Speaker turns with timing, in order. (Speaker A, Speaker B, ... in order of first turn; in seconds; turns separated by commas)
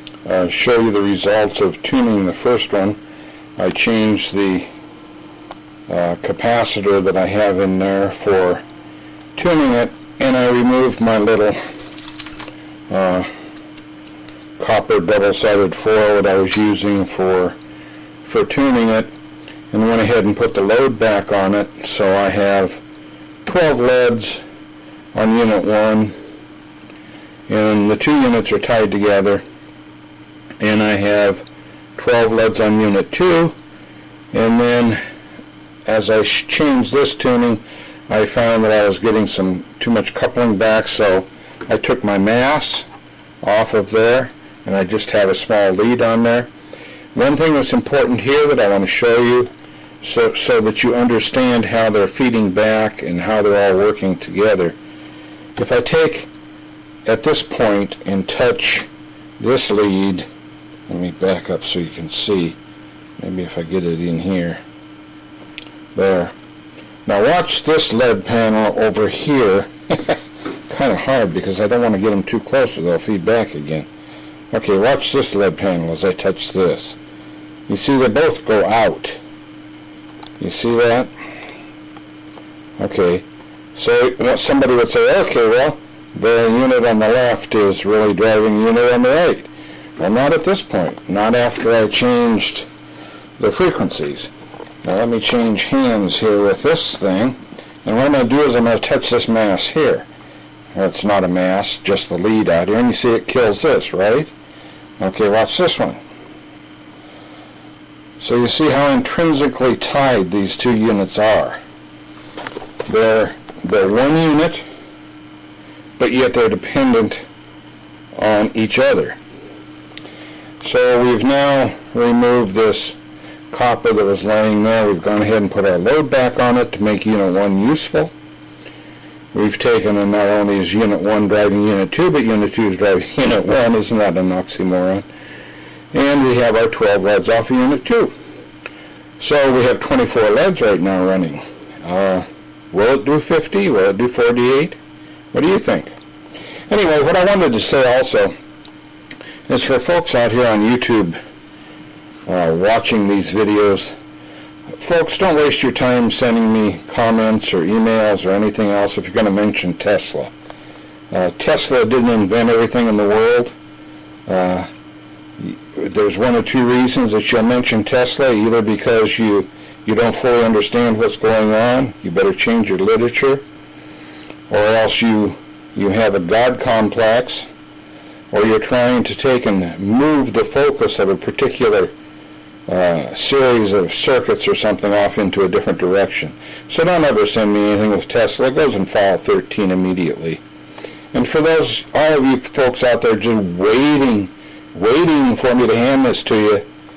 Speaker A: 0.2-3.0, Speaker A: 3.6-4.7, Speaker A: 5.9-8.6, Speaker A: 9.3-11.6, Speaker A: 12.9-13.3, Speaker A: 14.6-17.6, Speaker A: 18.2-19.1, Speaker A: 19.7-22.8, Speaker A: 23.4-24.4, Speaker A: 25.1-26.1, Speaker A: 27.5-29.4, Speaker A: 30.6-31.4, Speaker A: 31.9-33.5, Speaker A: 34.3-35.0, Speaker A: 35.9-42.9, Speaker A: 43.4-46.5, Speaker A: 47.1-49.5, Speaker A: 50.0-54.8, Speaker A: 55.5-56.3, Speaker A: 57.0-58.9, Speaker A: 59.4-60.3, Speaker A: 60.9-62.6, Speaker A: 63.2-64.6, Speaker A: 65.9-66.3, Speaker A: 67.0-73.9, Speaker A: 74.5-77.0, Speaker A: 77.7-79.2, Speaker A: 80.4-81.1, Speaker A: 82.8-92.7, Speaker A: 93.4-94.3, Speaker A: 94.8-100.1, Speaker A: 100.7-104.3, Speaker A: 105.0-106.0, Speaker A: 108.2-111.6, Speaker A: 112.8-114.6, Speaker A: 116.0-117.2, Speaker A: 118.1-119.2, Speaker A: 120.6-123.0, Speaker A: 123.5-128.1, Speaker A: 129.3-135.1, Speaker A: 135.9-138.1, Speaker A: 139.2-144.8, Speaker A: 145.3-145.9, Speaker A: 146.7-148.3, Speaker A: 149.5-151.2, Speaker A: 152.2-153.9, Speaker A: 154.8-160.3, Speaker A: 161.1-163.5, Speaker A: 164.3-164.7, Speaker A: 165.4-173.4, Speaker A: 174.5-177.4, Speaker A: 178.3-181.9, Speaker A: 182.7-190.4, Speaker A: 191.1-196.6